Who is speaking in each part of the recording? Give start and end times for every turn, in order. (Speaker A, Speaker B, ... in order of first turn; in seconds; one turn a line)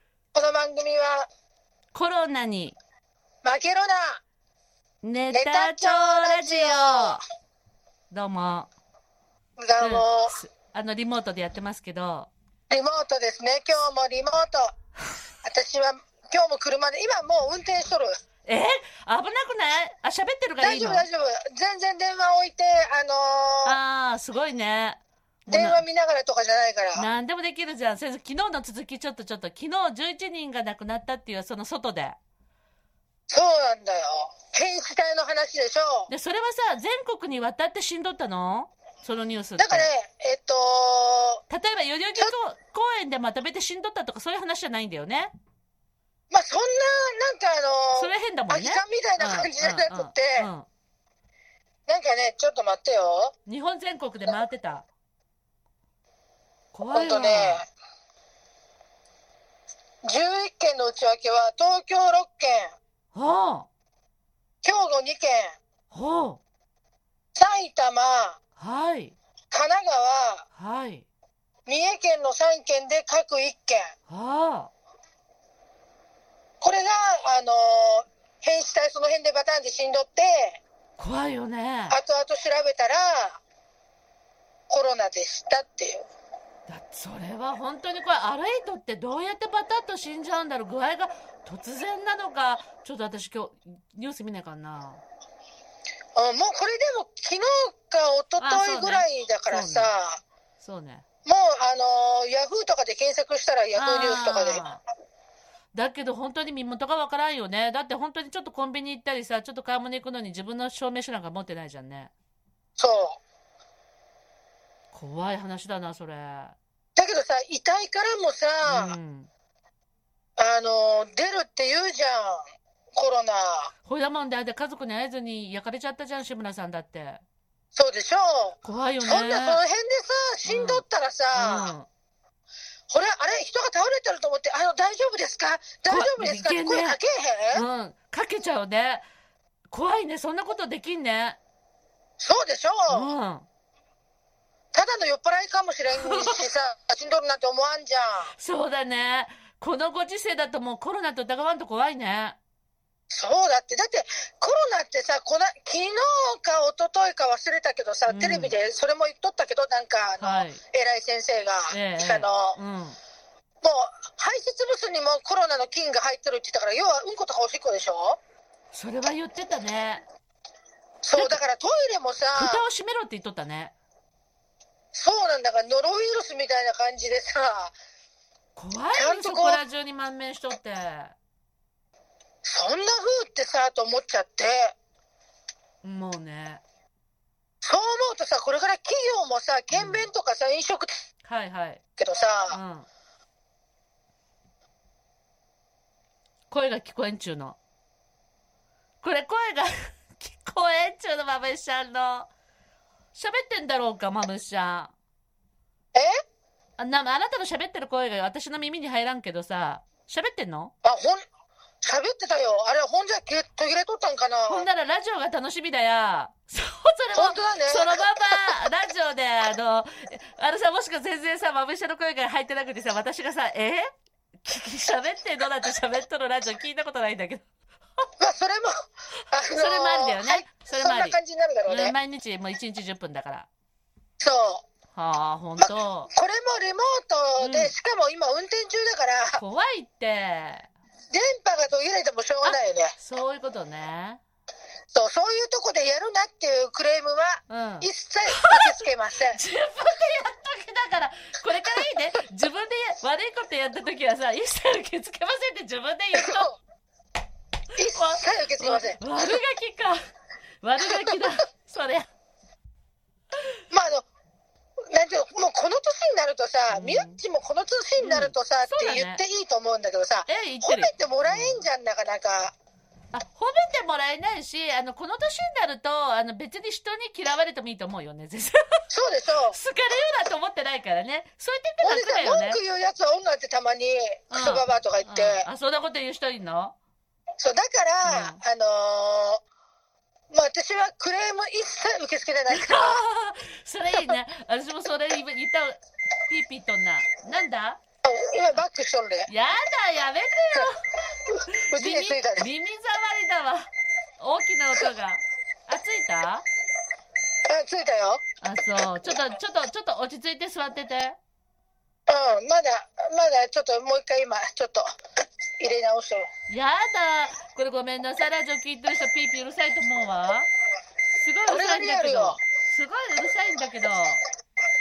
Speaker A: 0.3-1.3
Speaker B: 1.9-2.8
Speaker A: 3.4-4.2
Speaker B: 5.0-7.2
Speaker A: 5.3-7.2
Speaker B: 8.1-8.7
Speaker A: 9.6-10.3
Speaker B: 9.8-12.3
Speaker A: 12.7-14.7
Speaker A: 15.4-18.1
Speaker B: 18.5-21.1
Speaker A: 20.6-23.8
Speaker B: 23.6-25.8
Speaker A: 25.5-27.1
Speaker B: 26.9-32.2
Speaker A: 33.3-36.1
Speaker B: 36.1-39.9
Speaker A: 39.6-41.4
Speaker B: 41.5-45.3
Speaker A: 46.3-50.5
Speaker B: 47.9-50.7
Speaker A: 51.9-53.3
Speaker B: 53.5-54.9
Speaker B: 56.7-57.6
Speaker A: 56.9-57.6
Speaker A: 60.0-62.7
Speaker B: 63.1-63.7
Speaker A: 64.6-65.5
Speaker B: 65.9-66.4
Speaker A: 67.3-68.4
Speaker B: 68.6-69.2
Speaker A: 69.5-70.4
Speaker B: 70.5-71.0
Speaker A: 71.7-73.9
Speaker B: 74.1-74.7
Speaker A: 76.6-80.6
Speaker B: 81.0-82.0
Speaker A: 81.9-83.4
Speaker A: 84.7-86.1
Speaker B: 86.7-95.0
Speaker A: 96.1-100.2
Speaker B: 98.4-99.9
Speaker B: 100.6-101.0
Speaker A: 101.2-104.7
Speaker B: 103.8-104.8
Speaker B: 105.7-112.1
Speaker A: 112.8-113.2
Speaker B: 114.9-116.6
Speaker A: 117.0-119.0
Speaker B: 118.6-119.3
Speaker A: 120.4-122.4
Speaker A: 122.9-123.7
Speaker B: 123.8-127.2
Speaker A: 127.7-131.7
Speaker B: 128.6-129.6
Speaker B: 130.4-130.8
Speaker B: 131.3-131.9
Speaker A: 132.9-137.6
Speaker B: 135.9-137.0
Speaker B: 137.5-139.0
Speaker B: 139.7-141.4
Speaker A: 142.2-143.1
Speaker B: 142.9-143.5
Speaker A: 144.7-148.3
Speaker B: 145.9-146.4
Speaker B: 148.3-152.4
Speaker A: 153.1-162.6
Speaker B: 158.1-158.5
Speaker B: 160.2-160.6
Speaker B: 161.7-163.0
Speaker A: 163.6-168.2
Speaker B: 168.7-170.0
Speaker A: 171.0-172.6
Speaker B: 171.1-171.4
Speaker B: 172.3-173.7
Speaker A: 174.9-177.7
Speaker B: 178.6-181.1
Speaker A: 178.9-179.6
Speaker A: 182.4-184.7
Speaker B: 185.8-186.6
Speaker A: 187.6-191.0
Speaker B: 189.7-190.1
Speaker B: 191.2-191.8
Speaker A: 192.0-192.6
Speaker B: 192.5-192.8
Speaker B: 196.5-197.6
Speaker B: 199.0-202.3
Speaker B: 203.1-204.9
Speaker B: 206.8-210.7
Speaker A: 210.8-211.2
Speaker A: 211.8-214.7
Speaker B: 214.5-223.9
Speaker A: 217.1-218.0
Speaker B: 224.4-227.4
Speaker A: 228.2-231.9
Speaker B: 229.4-233.5
Speaker A: 234.2-234.6
Speaker B: 234.9-236.1
Speaker A: 235.6-239.4
Speaker B: 237.4-237.7
Speaker B: 239.4-240.7
Speaker A: 241.1-242.9
Speaker B: 242.4-244.2
Speaker A: 244.9-249.4
Speaker B: 247.5-256.5
Speaker A: 256.1-256.5
Speaker A: 257.8-259.1
Speaker B: 257.9-260.0
Speaker B: 260.6-262.1
Speaker A: 263.7-264.0
Speaker A: 264.9-272.5
Speaker B: 266.7-267.2
Speaker B: 268.0-269.2
Speaker B: 270.3-271.6
Speaker B: 273.1-278.6
Speaker A: 278.9-279.6
Speaker B: 279.5-282.6
Speaker A: 281.8-285.5
Speaker B: 284.3-286.7
Speaker A: 287.4-289.4
Speaker B: 288.0-288.4
Speaker A: 290.3-293.0
Speaker B: 292.5-297.8
Speaker A: 298.0-299.3
Speaker B: 299.3-300.9
Speaker B: 301.7-303.6
Speaker A: 301.7-302.5
Speaker B: 304.2-306.4
Speaker A: 307.5-308.2
Speaker B: 308.4-311.2
Speaker A: 312.1-314.9
Speaker A: 315.6-316.3
Speaker B: 316.5-320.5
Speaker B: 321.2-324.2
Speaker A: 321.5-322.4